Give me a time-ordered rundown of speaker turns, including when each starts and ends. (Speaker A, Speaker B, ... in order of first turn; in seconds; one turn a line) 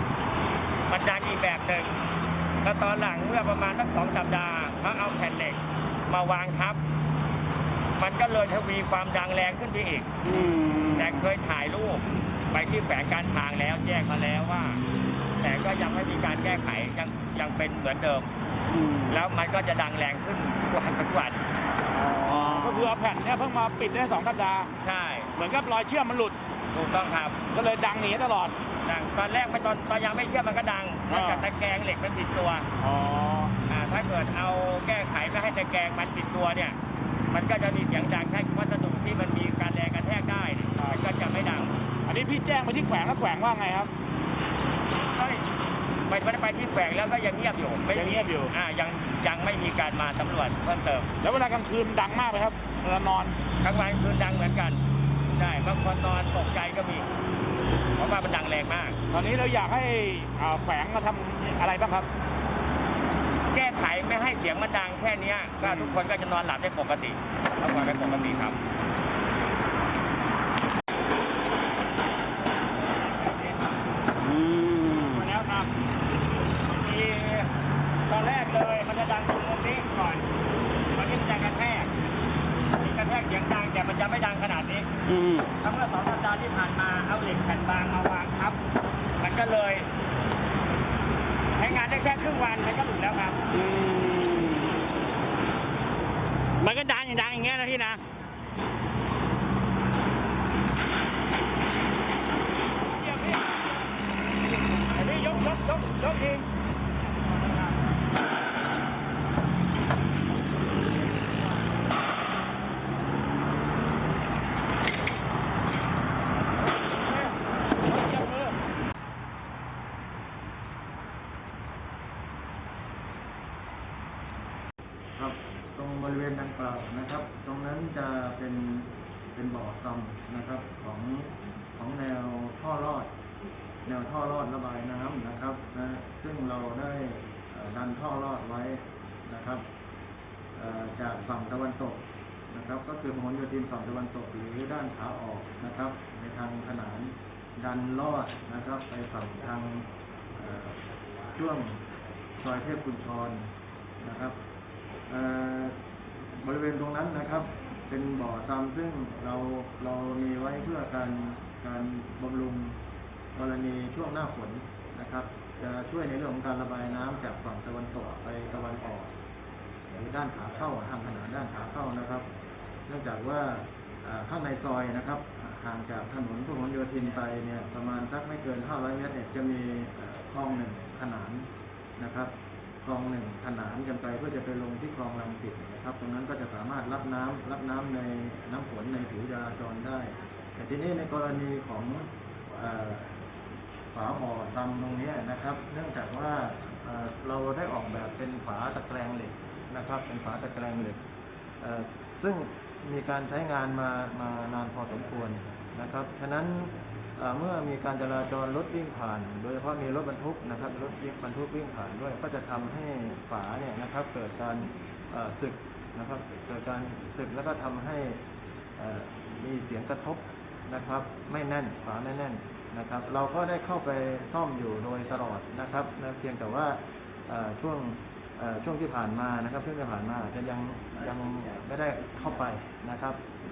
Speaker A: 0.9-2.0
Speaker A: 2.6-6.8
Speaker A: 8.0-10.2
Speaker B: 10.3-11.0
Speaker A: 10.9-14.8
Speaker A: 15.4-18.3
Speaker A: 19.0-21.4
Speaker B: 21.9-24.7
Speaker A: 22.3-22.6
Speaker A: 24.8-25.3
Speaker B: 25.4-26.4
Speaker A: 26.7-27.5
Speaker B: 27.5-28.6
Speaker A: 28.9-32.7
Speaker B: 31.1-31.5
Speaker B: 32.8-33.5
Speaker A: 33.7-36.8
Speaker A: 37.3-41.7
Speaker B: 42.1-43.9
Speaker A: 45.1-45.4
Speaker A: 46.1-51.1
Speaker B: 48.0-48.5
Speaker B: 51.2-53.4
Speaker A: 53.6-57.1
Speaker A: 58.0-59.0
Speaker B: 59.1-62.1
Speaker A: 63.5-68.6
Speaker A: 73.2-73.6
Speaker B: 74.3-75.2
Speaker A: 75.1-75.7
Speaker A: 76.7-77.5
Speaker A: 78.1-80.3
Speaker A: 81.0-81.9
Speaker A: 82.8-88.6
Speaker B: 85.1-85.5
Speaker A: 89.2-89.9
Speaker A: 91.6-93.6
Speaker B: 93.6-94.6
Speaker A: 96.6-98.0
Speaker B: 103.1-103.4
Speaker B: 105.0-106.5
Speaker C: 125.2-133.1
Speaker C: 133.9-139.7
Speaker C: 140.6-150.8
Speaker C: 151.3-151.9
Speaker C: 152.4-154.4
Speaker C: 155.1-155.8
Speaker C: 156.3-162.8
Speaker C: 163.3-169.2
Speaker C: 169.9-172.3
Speaker C: 172.9-193.2
Speaker C: 193.9-201.0
Speaker C: 201.6-218.2
Speaker C: 218.8-233.2